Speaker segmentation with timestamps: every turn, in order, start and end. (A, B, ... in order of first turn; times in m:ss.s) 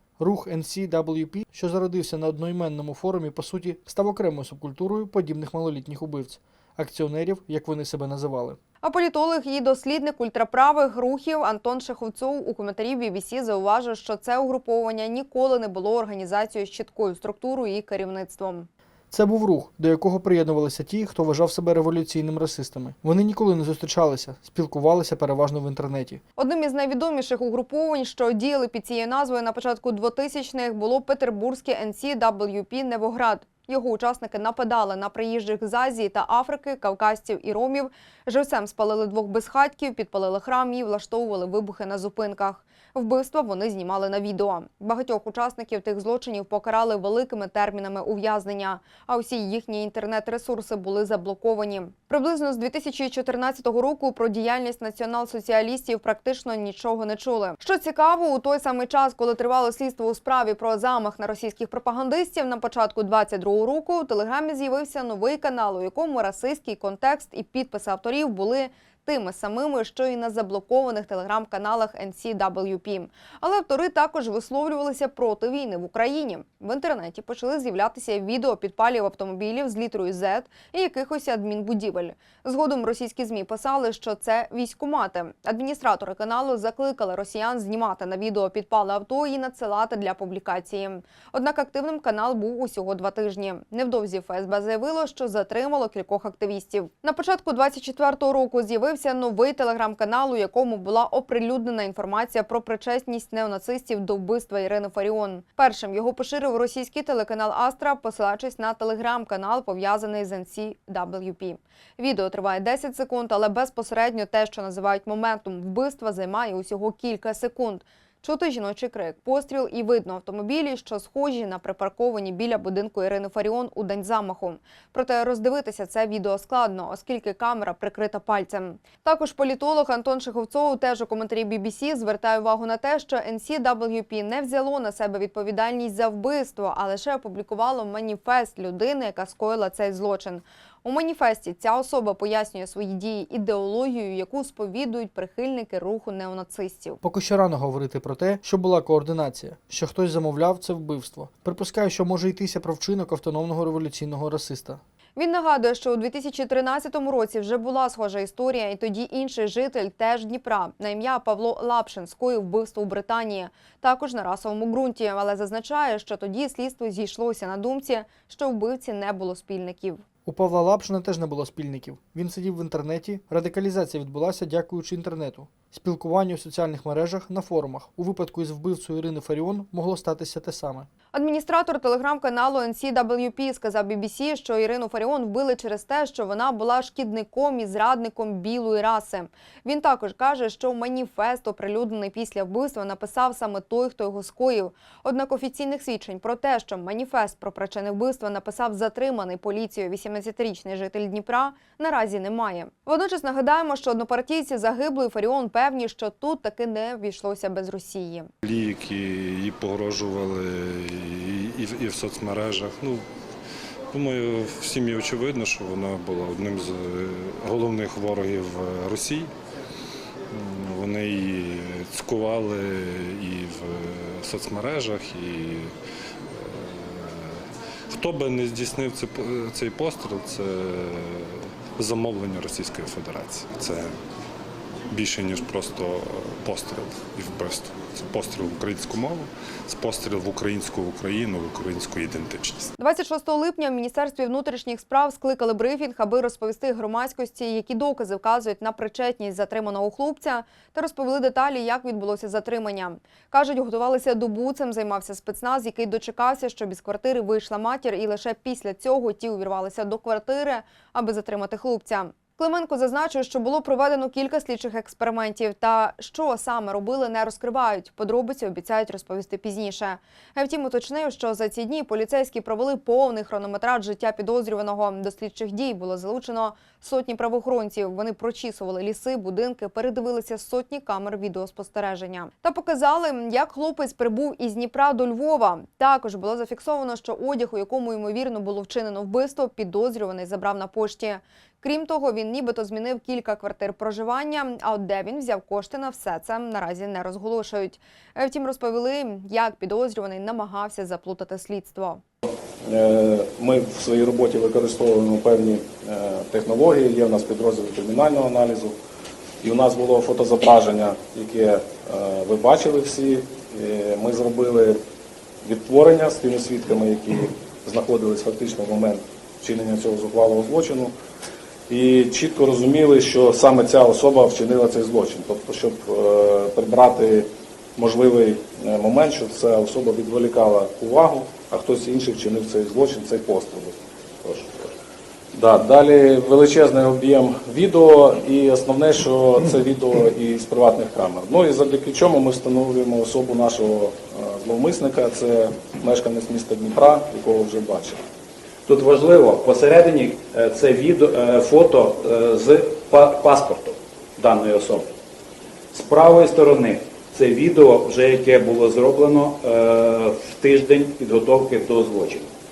0:00.2-0:08.6 A
0:08.8-0:18.7 B
0:19.1-0:26.2 A
0:26.4-2:27.0 B
2:27.0-2:34.8 A
2:35.2-2:50.0 B
2:50.3-3:00.9 A
3:01.1-3:28.3 B
3:28.4-3:33.0 C
3:33.9-3:39.3 C
3:40.3-3:45.7 C
3:46.3-3:54.0 C
3:54.9-4:02.7 C
4:02.8-5:02.0 B
5:02.6-5:08.7 D
5:09.4-5:14.8 D
5:15.4-5:20.9 D
5:21.7-5:33.8 D
5:34.2-5:34.7 E
5:35.3-5:48.0 D
5:48.7-5:54.9 E
5:55.7-6:02.3 E